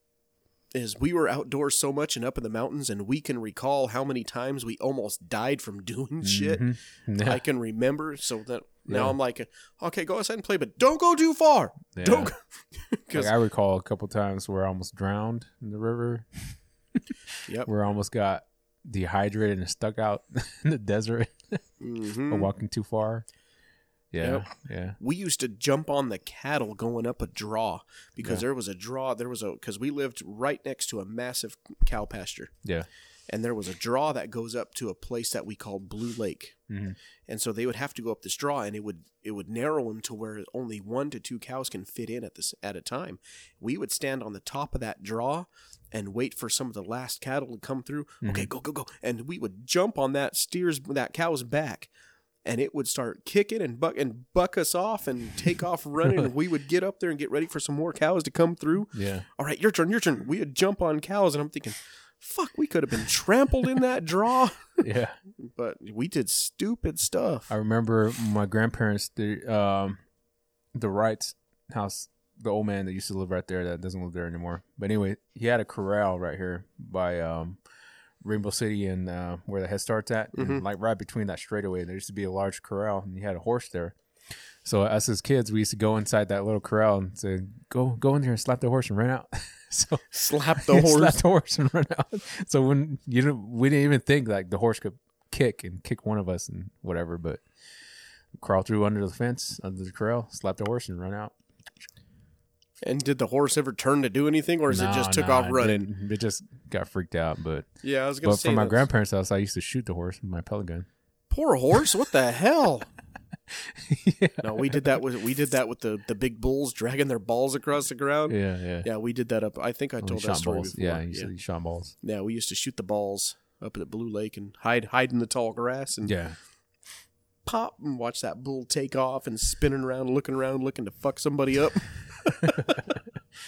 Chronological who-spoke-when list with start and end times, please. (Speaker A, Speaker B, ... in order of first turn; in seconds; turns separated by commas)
Speaker A: 0.7-6.6, Speaker B: 6.2-7.4, Speaker A: 7.2-13.3, Speaker B: 8.9-9.1, Speaker B: 11.9-12.3, Speaker B: 13.1-16.3, Speaker B: 17.6-21.6, Speaker A: 21.8-22.5, Speaker B: 22.3-23.2, Speaker B: 24.1-25.0, Speaker A: 24.2-32.5, Speaker A: 33.3-36.5, Speaker B: 36.7-37.0, Speaker A: 37.3-51.9, Speaker B: 48.2-48.5, Speaker A: 52.4-64.8, Speaker B: 58.9-59.2, Speaker B: 64.8-65.2, Speaker A: 65.4-67.5, Speaker B: 67.5-70.0, Speaker B: 70.7-77.6, Speaker B: 78.2-83.9, Speaker A: 80.3-80.6, Speaker B: 84.6-97.4, Speaker A: 90.1-91.2, Speaker B: 98.3-101.3, Speaker A: 102.8-105.9, Speaker B: 104.7-107.7, Speaker A: 107.8-108.9, Speaker B: 108.2-110.9, Speaker A: 111.3-112.9, Speaker B: 113.8-114.9, Speaker A: 114.4-121.3, Speaker B: 118.3-118.9, Speaker B: 120.0-121.9, Speaker A: 122.0-126.1, Speaker B: 126.0-126.4, Speaker A: 127.4-132.8